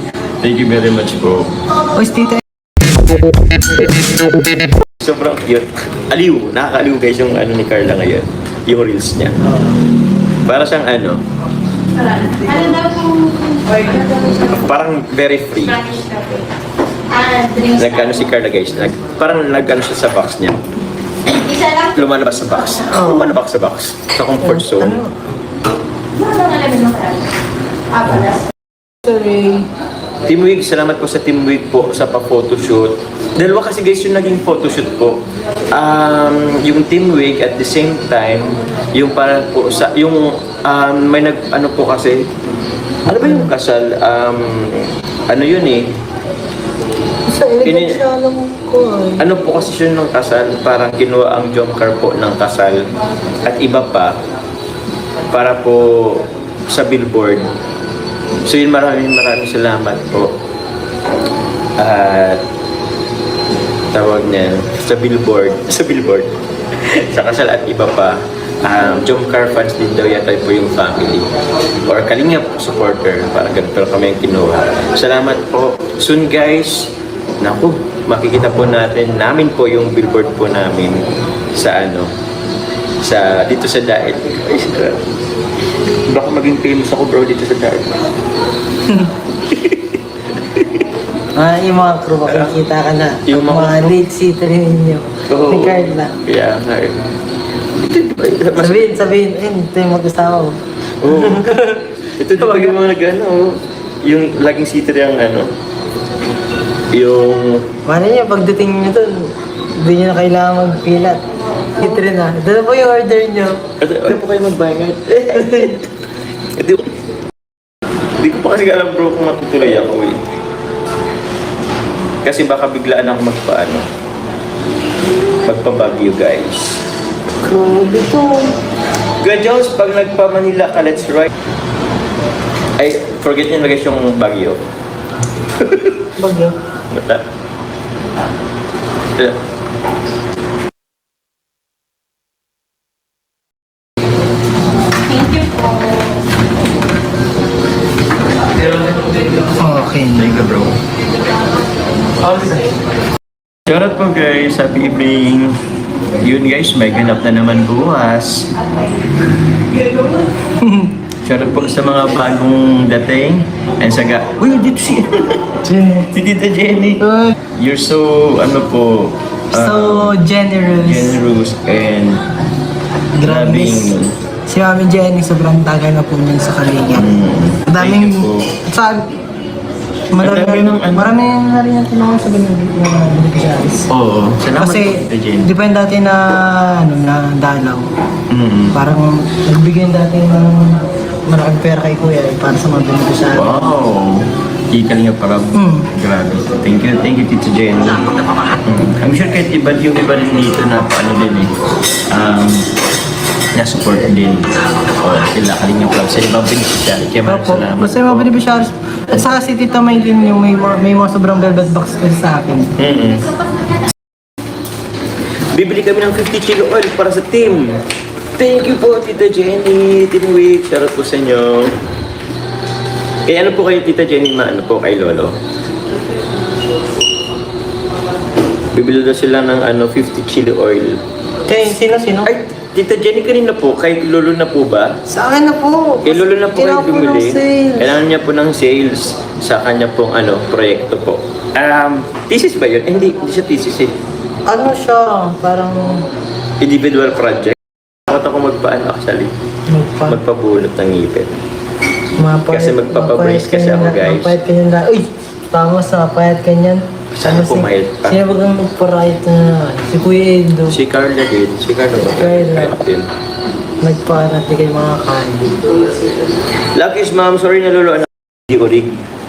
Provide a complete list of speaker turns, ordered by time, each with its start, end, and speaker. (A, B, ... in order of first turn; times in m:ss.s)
0:00.4-0:01.5 A
0:01.9-0:02.4 B
0:05.0-0:09.6 A
0:10.4-0:11.2 A
0:12.0-0:14.5 C
0:14.4-0:15.9 A
0:15.8-0:16.4 C
0:17.1-0:17.8 C
0:17.7-0:20.6 A
0:21.4-0:21.7 C
0:21.7-0:25.0 A
0:22.9-0:23.4 B
0:24.4-0:25.3 B
0:26.2-0:27.2 C
0:27.9-0:28.4 C
0:29.0-0:29.7 B
0:30.2-0:35.2 A
0:35.7-0:42.3 A
0:43.0-0:45.9 A
0:47.3-0:49.2 B
0:47.6-0:48.0 A
0:49.2-0:52.8 A
0:53.4-0:54.2 A
0:55.3-0:57.5 A
0:58.4-1:00.3 A
1:01.8-1:02.4 A
1:03.9-1:11.3 A
1:11.8-1:22.1 A
1:23.0-1:25.0 A
1:26.1-1:28.0 A
1:29.5-1:29.9 A
1:31.3-1:36.2 B
1:33.2-1:34.0 A
1:35.3-1:37.0 A
1:37.8-1:39.0 A
1:38.6-1:41.8 B
1:41.0-1:41.5 A
1:42.2-1:45.5 A
1:42.4-1:42.7 B
1:46.9-1:47.7 A
1:47.8-1:51.2 B
1:51.7-1:53.6 B
1:53.8-1:55.9 A
1:56.5-1:56.9 A
1:58.2-2:00.2 A
2:02.2-2:03.8 A
2:05.4-2:06.8 A
2:07.4-2:08.5 B
2:09.2-2:11.3 A
2:12.8-2:14.6 A
2:15.6-2:16.1 A
2:16.2-2:16.5 B
2:16.9-2:17.2 A
2:25.2-2:26.0 C
2:29.6-2:30.3 B
2:30.1-2:30.7 A
2:32.3-2:32.6 A
2:33.7-2:35.6 A
2:36.2-2:38.5 A
2:40.6-2:40.9 B
2:41.2-2:50.1 A
2:45.6-2:46.1 B
2:49.5-2:51.2 B
2:50.7-2:52.2 A
2:53.2-2:54.0 B
2:53.2-2:54.1 A
2:54.5-2:57.1 B
2:57.0-2:58.6 A
2:57.6-2:59.2 B
3:00.1-3:03.9 B
3:00.2-3:01.1 A
3:03.9-3:05.5 A
3:04.6-3:07.9 B
3:08.3-3:08.8 A
3:08.7-3:13.7 B
3:13.3-3:18.1 A
3:15.5-3:15.9 B
3:18.6-3:21.5 A
3:22.1-3:22.7 A
3:23.5-3:28.3 A
3:27.2-3:32.7 B
3:32.8-3:33.3 A
3:35.5-3:37.8 A
3:38.4-3:41.7 A
3:43.2-3:45.4 A
3:48.7-3:51.0 A
3:51.5-3:52.3 B
3:52.2-3:55.0 A
3:55.1-3:58.0 B
3:56.0-4:04.0 A
4:04.5-4:06.1 B
4:06.6-4:09.3 A
4:09.7-4:10.2 B
4:10.1-4:11.4 A
4:12.2-4:20.8 B
4:12.5-4:14.4 A
4:17.1-4:18.2 A
4:20.7-4:23.1 A
4:22.0-4:22.8 B
4:23.8-4:25.6 B
4:26.7-4:29.0 A